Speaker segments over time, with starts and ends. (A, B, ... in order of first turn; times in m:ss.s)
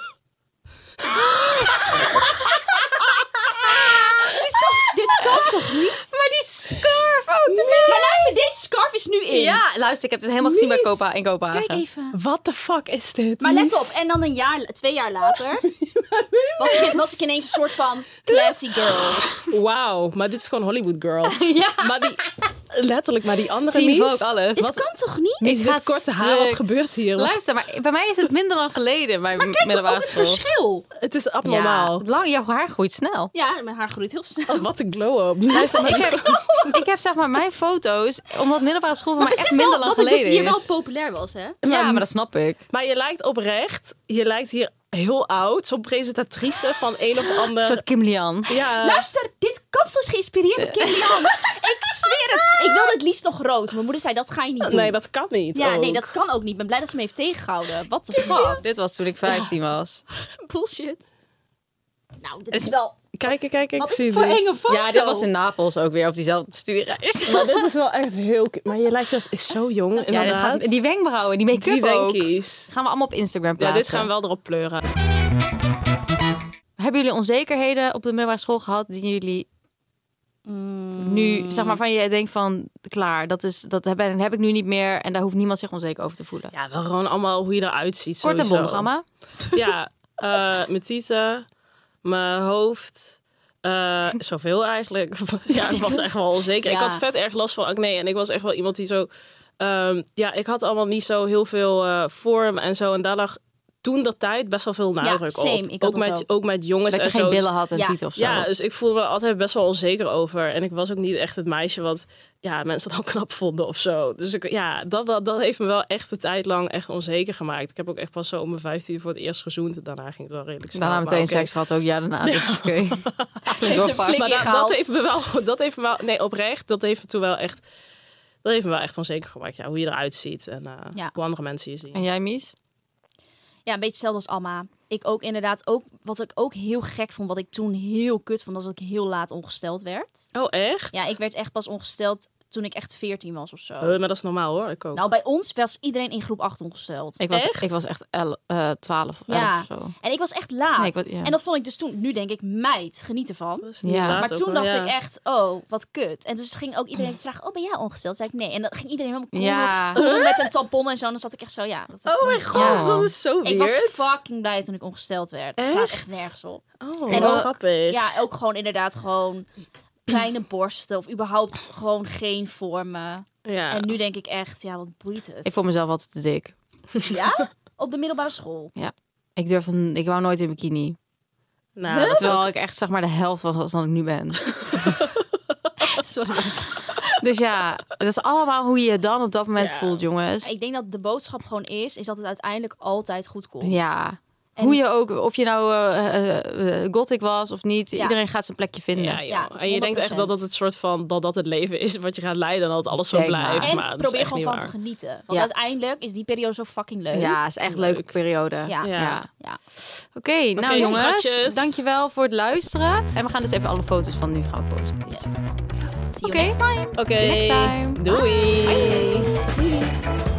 0:01.1-0:04.5 A
0:04.2-0:06.2 B
0:05.1-0:08.4 A
0:07.5-0:09.6 B
0:09.3-0:11.8 A
0:11.5-0:12.2 B
0:12.1-0:14.0 C
0:13.4-0:15.6 B
0:15.6-0:17.4 C
0:16.6-0:19.3 B
0:18.2-0:24.8 C
0:21.2-0:22.4 A
0:23.7-0:24.8 A
0:24.6-0:25.4 B
0:25.4-0:26.6 A
0:25.4-0:27.4 C
0:27.2-0:30.4 A
0:29.5-0:30.8 B
0:31.0-0:32.0 C
0:31.4-0:33.3 A
0:33.3-0:34.6 B
0:34.5-0:36.7 C
0:35.5-0:40.7 A
0:35.6-0:36.7 B
0:39.2-0:41.6 B
0:41.6-0:42.0 C
0:41.6-0:42.6 A
0:42.7-0:47.8 C
0:47.6-0:48.6 A
0:48.5-0:49.0 C
0:48.8-0:54.9 B
0:54.6-0:56.2 C
0:55.5-0:58.6 B
0:58.2-1:00.0 A
0:59.3-0:59.5 B
1:00.2-1:01.1 B
1:02.2-1:03.0 B
1:03.2-1:04.4 C
1:03.8-1:05.3 B
1:04.7-1:07.7 A
1:07.3-1:10.8 C
1:10.0-1:10.4 B
1:10.1-1:14.1 A
1:11.5-1:12.7 C
1:13.6-1:14.8 C
1:16.8-1:19.5 A
1:20.4-1:21.8 B
1:21.0-1:26.5 A
1:26.5-1:28.9 C
1:28.2-1:29.0 A
1:29.5-1:31.4 C
1:32.0-1:39.1 C
1:36.6-1:37.0 B
1:39.6-1:47.5 C
1:45.0-1:46.2 B
1:46.9-1:48.5 A
1:48.2-2:01.5 C
2:00.7-2:04.2 A
2:02.2-2:07.6 C
2:03.6-2:04.8 B
2:08.4-2:12.0 C
2:11.9-2:12.5 A
2:13.6-2:20.2 B
2:20.3-2:21.1 C
2:20.9-2:24.0 B
2:23.8-2:25.0 C
2:24.9-2:27.2 B
2:27.2-2:29.9 A
2:27.3-2:27.8 C
2:29.3-2:49.5 B
2:30.8-2:31.3 A
2:33.6-2:34.9 C
2:33.8-2:34.2 A
2:39.3-2:40.0 A
2:40.0-2:40.4 C
2:42.1-2:44.1 C
2:42.5-2:43.1 A
2:45.6-2:46.3 C
2:46.8-2:48.0 C
2:47.1-2:47.5 A
2:50.0-2:55.5 B
2:53.4-2:53.9 C
2:55.4-2:56.5 A
2:57.0-2:58.7 B
2:58.8-3:01.0 A
3:01.8-3:02.4 C
3:01.9-3:02.4 B
3:02.0-3:05.0 A
3:04.6-3:05.1 C
3:05.8-3:06.7 B
3:07.1-3:10.5 A
3:09.6-3:10.0 C
3:10.4-3:13.9 B
3:13.6-3:19.2 A
3:19.0-3:24.7 C
3:19.3-3:20.4 B
3:23.1-3:23.7 A
3:23.6-3:27.4 B
3:27.1-3:35.3 A
3:27.7-3:28.2 C
3:28.6-3:29.6 B
3:28.8-3:29.2 C
3:30.6-3:31.7 C
3:35.1-3:35.6 B
3:36.1-3:37.0 B
3:36.2-3:38.0 A
3:37.0-3:39.3 C
3:38.1-3:39.9 B